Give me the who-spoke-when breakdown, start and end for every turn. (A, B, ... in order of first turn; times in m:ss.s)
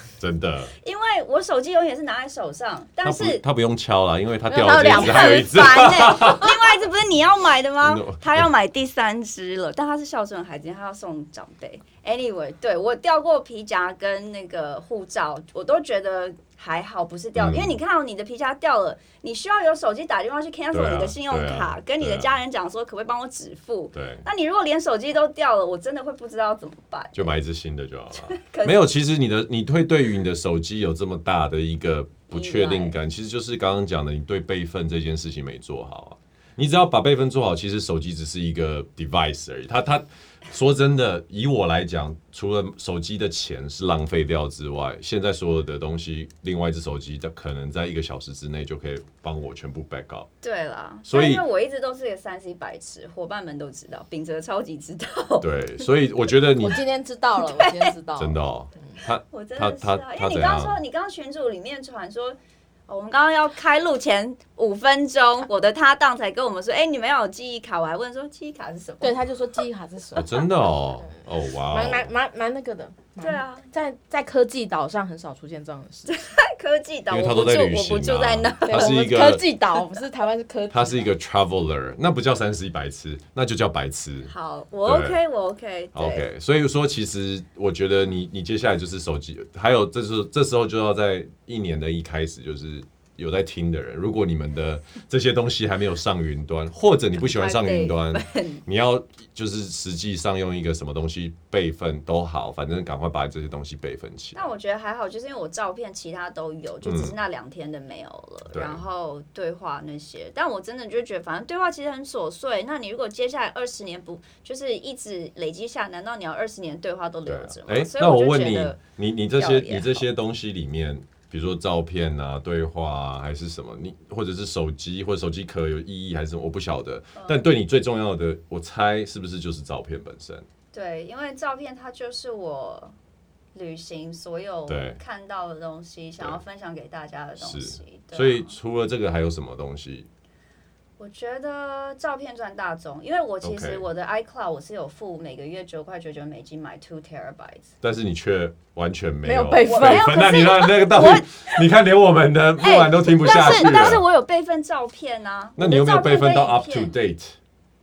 0:00.2-0:00.7 A
0:00.8-0:03.4 B
0:03.0-0:06.5 A
0:04.5-0:06.3 C
0:04.9-0:27.3 B
0:07.8-0:08.5 A
0:17.4-0:17.8 A
0:20.7-0:22.3 A
0:23.9-0:24.2 A
0:27.2-0:50.3 A
0:28.2-0:28.9 B
0:32.3-0:33.0 B
0:50.4-0:55.5 B
0:51.1-0:51.4 A
0:55.4-0:56.8 A
0:56.6-0:59.0 C
0:57.4-0:57.9 B
0:58.2-1:00.8 A
0:59.3-1:02.4 B
1:02.9-1:09.6 B
1:09.0-1:10.5 C
1:10.1-1:12.1 A
1:11.0-1:16.2 C
1:13.2-1:13.7 B
1:16.1-1:19.1 B
1:17.1-1:19.4 A
1:18.6-1:21.1 C
1:20.7-1:24.3 A
1:24.3-1:26.2 B
1:24.8-1:25.2 A
1:25.9-1:44.5 A
1:37.2-1:38.6 B
1:44.3-1:58.8 B
1:46.8-1:47.2 A
1:48.5-1:48.8 A
1:57.3-2:10.4 A
1:59.3-2:00.1 B
2:07.1-2:07.5 B
2:10.7-2:12.9 B
2:13.5-2:18.5 B
2:14.7-2:15.0 A
2:17.4-2:20.1 A
2:21.0-2:27.7 B
2:23.4-2:23.9 A
2:27.8-2:34.0 A
2:29.2-2:30.6 C
2:29.6-2:31.6 B
2:32.6-2:36.9 B
2:35.6-2:37.4 A